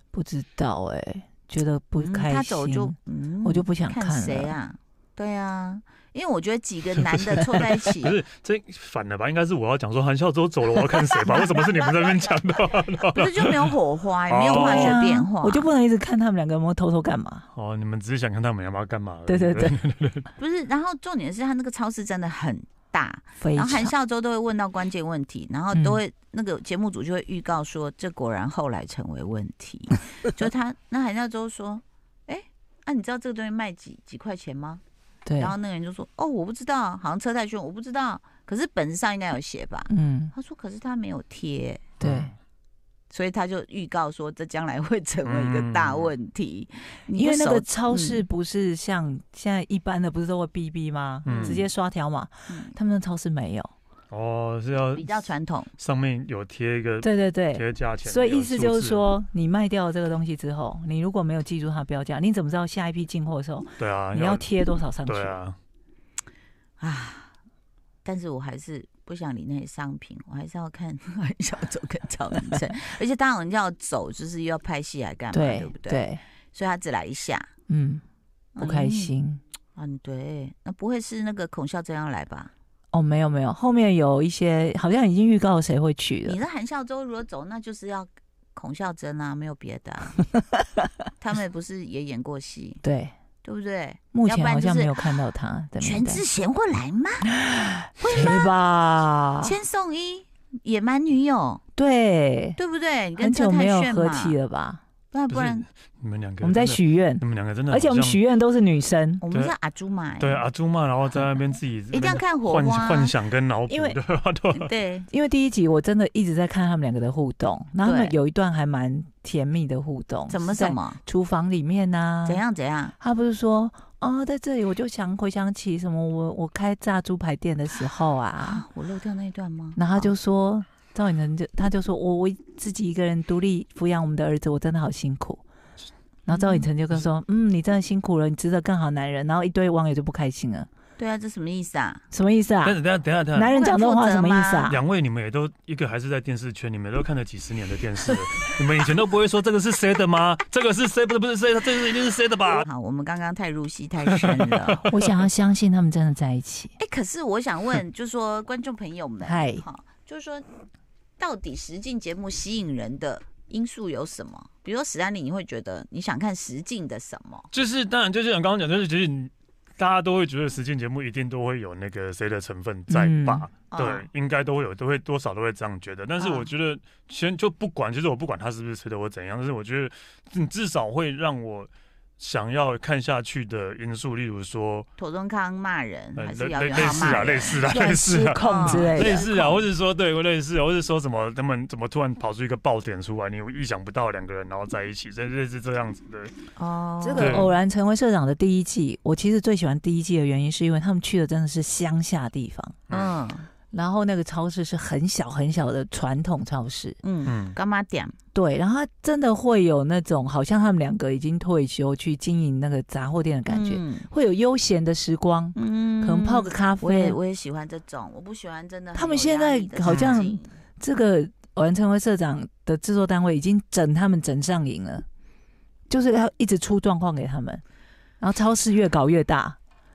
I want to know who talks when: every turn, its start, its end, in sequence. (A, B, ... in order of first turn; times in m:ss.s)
0:00.1-0:04.5 A
0:02.0-0:08.2 B
0:07.1-0:13.7 C
0:11.2-0:11.5 A
0:13.2-0:15.7 B
0:14.3-0:15.0 C
0:14.5-0:17.5 A
0:17.5-0:20.3 C
0:19.3-0:19.8 A
0:20.4-0:34.8 B
0:23.4-0:23.9 A
0:25.7-0:26.0 A
0:35.3-0:35.5 A
0:35.4-0:41.9 B
0:39.9-0:40.3 A
0:42.0-0:42.4 C
0:42.0-0:42.3 A
0:43.1-0:48.2 B
0:45.2-0:46.1 C
0:47.1-0:53.7 A
0:51.2-0:51.6 C
0:51.3-0:51.6 B
0:52.5-0:52.7 B
0:54.1-0:59.0 C
0:55.0-0:55.7 B
0:57.0-1:05.4 A
1:03.8-1:04.5 C
1:05.0-1:05.6 C
1:06.8-1:07.3 B
1:08.0-1:17.5 B
1:15.3-1:16.2 A
1:17.7-1:18.0 A
1:18.6-1:19.1 B
1:18.6-1:19.4 A
1:19.8-1:22.5 B
1:22.9-1:26.4 A
1:26.2-1:30.2 B
1:30.2-1:30.9 A
1:31.2-1:32.8 B
1:32.8-1:33.1 A
1:33.4-1:35.3 B
1:34.1-1:36.2 A
1:35.8-1:37.3 B
1:37.3-1:39.5 A
1:38.0-1:38.5 B
1:39.4-1:41.6 B
1:41.8-1:42.6 A
1:42.6-1:44.4 B
1:43.2-1:44.8 A
1:45.1-1:45.7 B
1:45.3-1:48.2 C
1:46.4-1:49.2 A
1:49.2-1:50.4 B
1:50.2-1:54.7 C
1:51.9-1:53.1 B
1:53.7-1:54.0 A
1:54.5-1:55.1 B
1:55.1-2:02.4 A
1:57.8-1:58.2 B
2:00.3-2:01.0 B
2:02.2-2:03.0 B
2:03.0-2:08.6 A
2:08.4-2:10.1 B
2:09.8-2:15.4 A
2:16.3-2:20.7 A
2:16.3-2:16.7 B
2:21.0-2:22.0 B
2:22.1-2:22.8 A
2:22.6-2:23.6 C
2:23.3-2:24.8 A
2:23.5-2:24.7 B
2:24.7-2:32.7 C
2:32.6-2:34.9 B
2:34.1-2:34.9 C
2:34.9-2:36.8 A
2:36.8-2:40.4 B
2:39.2-2:39.6 A
2:41.2-2:47.5 B
2:47.5-3:04.9 C
2:52.9-2:53.5 A
2:53.7-2:54.1 B
2:56.2-2:56.5 B
3:05.0-3:07.6 B
3:06.2-3:16.3 C
3:07.6-3:09.6 A
3:08.4-3:09.2 B
3:16.6-3:17.5 B
3:17.0-3:22.8 A
3:17.2-3:17.5 C
3:22.9-3:23.5 B
3:23.7-3:27.0 A
3:27.0-3:28.2 B
3:27.3-3:27.6 C
3:28.3-3:37.2 A
3:33.5-3:34.1 B
3:35.6-3:40.5 B
3:38.9-3:45.0 A
3:39.9-3:40.2 C
3:45.9-3:47.6 A
3:48.2-3:49.6 A